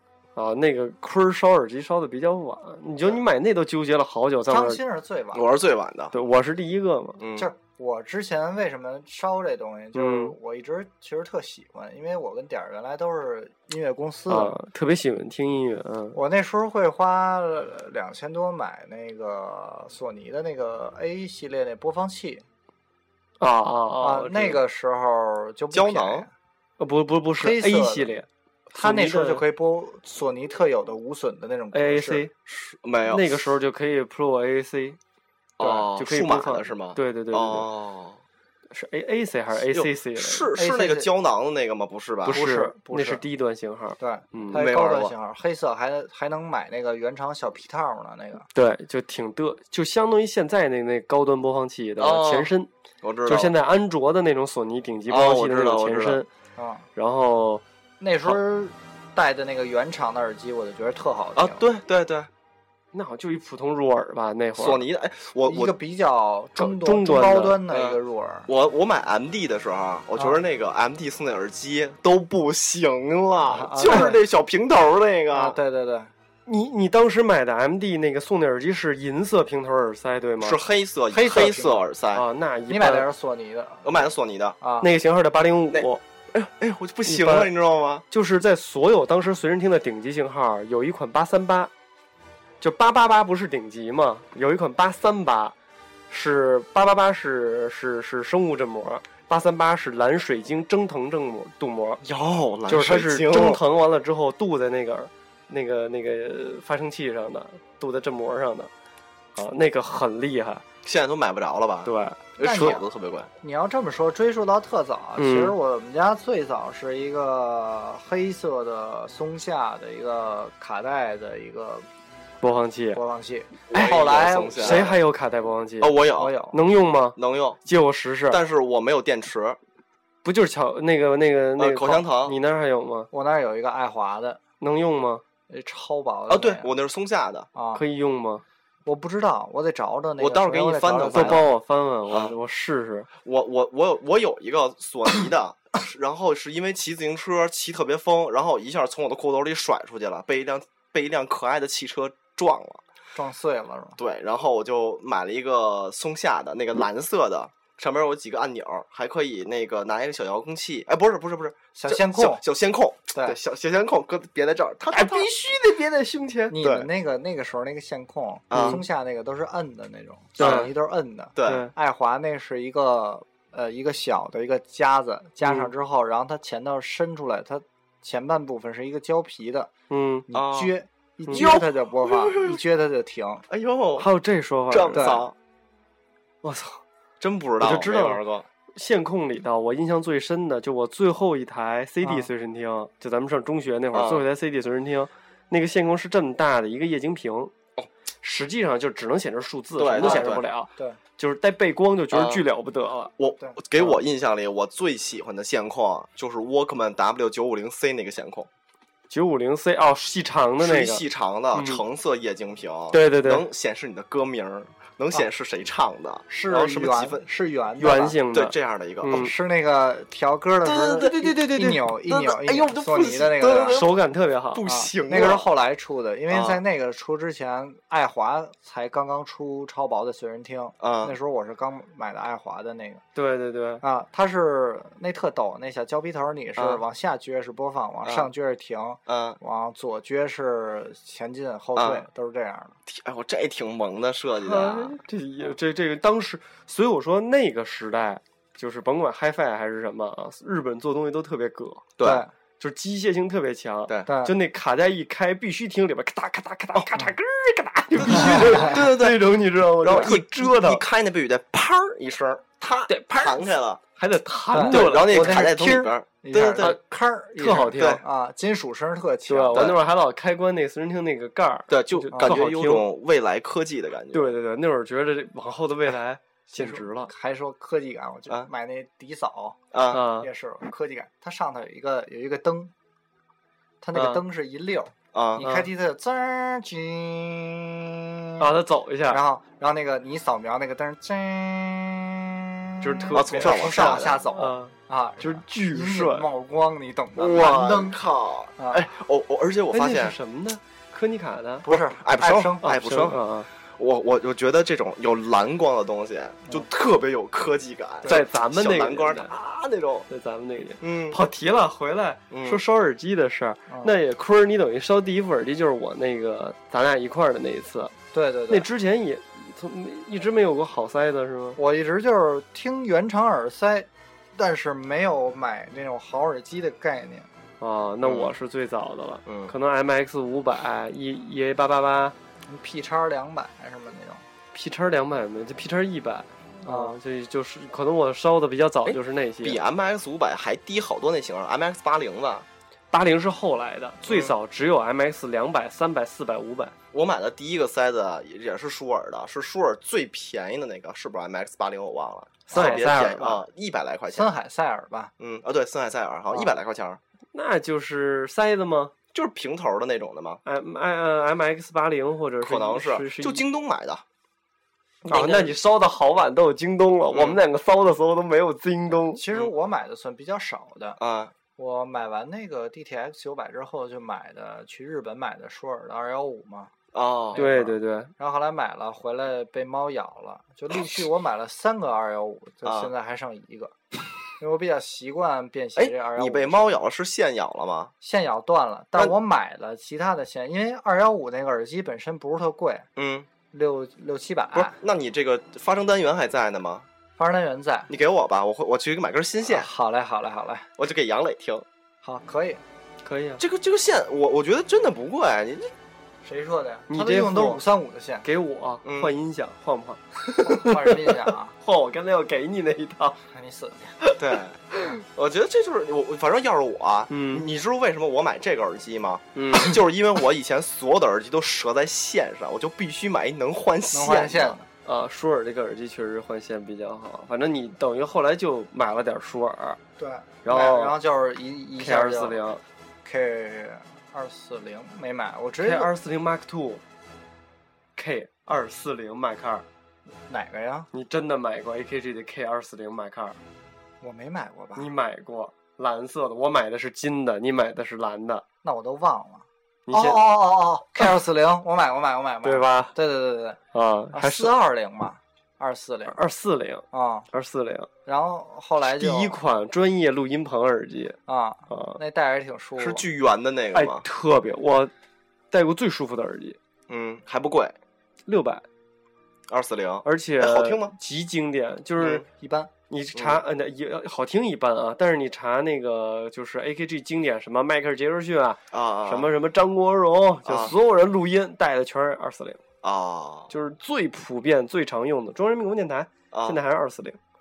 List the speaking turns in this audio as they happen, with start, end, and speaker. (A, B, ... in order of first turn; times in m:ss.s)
0:00.4-0:04.8 A
0:04.5-0:05.5 B
0:05.3-0:06.1 C
0:06.1-0:07.2 A
0:07.2-0:07.5 C
0:07.4-0:14.5 B
0:09.9-0:10.3 A
0:14.3-0:16.2 A
0:16.1-0:22.4 B
0:23.4-0:24.6 A
0:24.0-0:26.3 B
0:25.7-0:26.2 C
0:26.8-0:29.4 A
0:27.4-0:28.2 B
0:28.7-0:32.2 B
0:31.7-0:32.3 A
0:32.4-0:33.4 C
0:33.1-0:35.0 A
0:35.6-0:38.2 C
0:35.6-0:35.9 B
0:36.0-0:37.7 A
0:38.7-0:40.5 A
0:39.6-0:42.4 C
0:40.5-0:41.1 B
0:42.3-0:43.2 B
0:42.3-0:44.6 A
0:44.0-0:48.4 B
0:44.5-0:45.1 C
0:48.5-0:52.7 A
0:52.0-0:52.5 C
0:53.0-0:53.5 C
0:53.2-0:56.3 A
0:55.1-0:56.2 C
0:56.6-0:56.8 B
0:57.0-0:57.6 A
0:58.0-1:01.6 B
1:01.4-1:02.3 C
1:02.9-1:04.8 A
1:04.6-1:05.7 C
1:05.4-1:08.5 B
1:06.6-1:07.6 A
1:07.7-1:15.6 C
1:10.2-1:10.4 B
1:13.4-1:14.2 B
1:15.3-1:16.1 B
1:16.5-1:20.6 A
1:20.4-1:22.2 C
1:21.1-1:21.8 B
1:22.1-1:23.1 A
1:22.7-1:24.0 B
1:23.8-1:24.6 C
1:24.6-1:24.9 B
1:24.8-1:26.0 A
1:25.7-1:28.0 C
1:27.0-1:27.5 A
1:28.1-1:31.7 A
1:32.6-1:35.5 A
1:36.1-1:42.0 A
1:42.0-1:43.6 C
1:42.7-1:48.7 A
1:49.4-1:50.6 A
1:50.8-1:53.3 C
1:51.8-1:52.7 A
1:52.4-1:52.9 B
1:53.4-2:01.8 B
1:55.2-1:55.6 A
2:02.4-2:03.0 A
2:02.9-2:04.9 B
2:03.7-2:05.0 C
2:04.6-2:06.0 A
2:05.8-2:06.4 C
2:06.2-2:06.6 B
2:06.5-2:08.4 A
2:07.2-2:07.6 C
2:08.3-2:09.6 C
2:10.2-2:13.1 A
2:11.6-2:12.4 C
2:13.1-2:14.4 B
2:14.6-2:15.2 A
2:15.5-2:16.7 B
2:16.3-2:17.5 C
2:17.5-2:17.8 B
2:17.7-2:18.4 A
2:18.8-2:21.5 B
2:20.2-2:21.4 C
2:21.1-2:23.1 A
2:23.2-2:32.8 C
2:33.1-2:34.0 B
2:34.0-2:45.3 C
2:41.7-2:42.4 B
2:44.9-2:46.5 A
2:46.5-2:59.7 B
2:46.6-2:46.9 C
2:48.5-2:48.8 C
2:48.5-2:48.8 A
2:50.4-2:50.7 C
2:50.4-2:50.7 A
2:51.4-2:51.7 C
2:51.4-2:51.7 A
2:55.4-2:55.7 A
2:59.9-3:00.2 A
3:00.3-3:03.4 B
3:00.3-3:00.8 C
3:01.3-3:02.6 C
3:03.5-3:04.1 C
3:04.0-3:05.1 A
3:04.7-3:05.3 C
3:04.9-3:05.2 B
3:06.4-3:06.8 A
3:07.2-3:08.4 C
3:07.6-3:08.2 A
3:08.7-3:17.5 A
3:12.0-3:12.3 B
3:13.9-3:14.2 C
3:18.2-3:23.1 A
3:19.8-3:20.4 C
3:20.0-3:21.0 B
3:22.1-3:22.4 C
3:23.2-3:28.5 C
3:29.1-3:31.8 A
3:30.6-3:37.2 C
3:32.9-3:33.4 A
3:36.3-3:38.2 B
3:37.8-3:39.3 A
3:38.3-3:39.2 C
3:39.1-3:43.8 B
3:40.6-3:44.0 C
3:43.7-3:44.6 A
3:44.5-3:45.5 C
3:44.6-3:53.0 B
3:46.3-3:46.6 C
3:50.8-3:51.2 C
3:53.1-3:53.8 A
3:53.8-4:02.7 B
3:56.6-3:56.8 C
3:58.0-3:58.3 C
3:59.1-3:59.4 C
4:01.8-4:02.0 C
4:02.9-4:05.0 C
4:04.4-4:11.8 A
4:12.0-4:12.2 C
4:12.0-4:12.3 B
4:12.6-4:20.8 A
4:14.1-4:14.4 B
4:18.1-4:23.8 C
4:18.2-4:18.5 B
4:22.9-4:25.4 A
4:24.5-4:29.8 B
4:24.6-4:26.7 C
4:27.4-4:28.0 A
4:27.8-4:28.0 C
4:29.3-4:32.9 A
4:29.5-4:29.8 C
4:31.7-4:34.3 C
4:34.1-4:37.1 A
4:36.6-4:39.6 B
4:39.7-4:40.0 C
4:39.9-4:40.3 A
4:40.2-4:42.7 B
4:43.8-4:48.5 B
4:43.9-4:44.2 A
4:45.1-4:45.4 C
4:45.4-4:45.7 A
4:48.4-4:49.2 A
4:49.1-4:58.0 B
4:52.8-4:56.3 A
4:53.1-4:54.2 C
4:57.2-5:00.1 C
4:58.6-4:58.9 B
4:59.7-5:01.6 A
5:01.6-5:03.1 B
5:01.7-5:03.2 C
5:02.6-5:03.5 A
5:03.7-5:10.1 C
5:08.0-5:09.3 A
5:10.1-5:17.9 A
5:10.8-5:11.2 C
5:12.3-5:12.6 C
5:13.7-5:14.0 B
5:18.1-5:18.7 B
5:18.5-5:21.6 A
5:21.6-5:27.3 B
5:27.6-5:32.1 A
5:28.0-5:28.3 C
5:29.2-5:29.5 C
5:32.5-5:34.2 B
5:34.5-5:39.6 A
5:36.6-5:37.0 B
5:38.8-5:42.5 C
5:42.9-5:46.7 A
5:44.1-5:44.3 C
5:46.9-5:54.3 C
5:52.5-5:53.4 A
5:52.5-5:53.0 B
5:54.1-5:55.1 B
5:55.2-5:57.0 C
5:57.3-5:58.9 A
5:59.1-6:00.4 C
6:00.4-6:03.4 A
6:02.4-6:04.0 C
6:05.0-6:09.2 A
6:05.1-6:05.5 C
6:07.1-6:07.4 C
6:09.1-6:11.0 B
6:11.0-6:11.3 C
6:11.6-6:16.7 B
6:16.9-6:17.5 C
6:17.3-6:23.7 B
6:17.3-6:18.1 A
6:22.6-6:22.9 C
6:24.4-6:26.8 B
6:25.8-6:27.9 C
6:28.0-6:32.9 B
6:33.0-6:33.3 C
6:33.5-6:34.8 B
6:34.5-6:36.8 C
6:37.2-6:37.9 B
6:37.9-6:39.7 C
6:39.5-6:40.7 B
6:40.8-6:41.6 C
6:42.0-6:42.6 B
6:43.0-6:43.4 A
6:43.4-6:45.7 C
6:46.2-6:48.2 B
6:46.9-6:47.6 A
6:48.2-6:53.2 A
6:48.8-6:49.1 C
6:50.4-6:51.5 B
6:53.3-6:54.0 B
6:54.2-7:04.6 C
6:57.1-6:57.4 A
6:59.3-6:59.8 A
7:03.9-7:04.6 B
7:04.8-7:09.8 A
7:10.0-7:12.4 B
7:10.4-7:10.9 A
7:11.8-7:12.6 A
7:13.0-7:15.9 B
7:15.6-7:16.8 A
7:18.0-7:19.6 A
7:20.3-7:20.9 B
7:20.9-7:23.4 A
7:24.0-7:24.9 B
7:24.8-7:28.4 A
7:28.6-7:33.6 B
7:29.9-7:30.3 A
7:32.4-7:32.9 A
7:33.7-7:34.5 A
7:34.1-7:36.2 B
7:36.1-7:37.9 A
7:36.9-7:37.3 B
7:38.0-7:39.4 B
7:38.8-7:41.2 A
7:41.3-7:43.0 B
7:41.7-7:42.0 A
7:42.8-7:44.0 C
7:43.7-7:44.9 A
7:45.5-7:46.6 A
7:46.9-7:47.7 C
7:48.3-7:48.6 A
7:49.5-7:50.9 C
7:50.0-7:52.2 A
7:52.2-7:52.7 B
7:52.9-8:02.6 A
7:53.1-7:53.4 C
7:58.7-7:59.3 C
8:00.4-8:00.7 C
8:02.8-8:03.5 C
8:03.5-8:07.2 A
8:06.3-8:06.6 C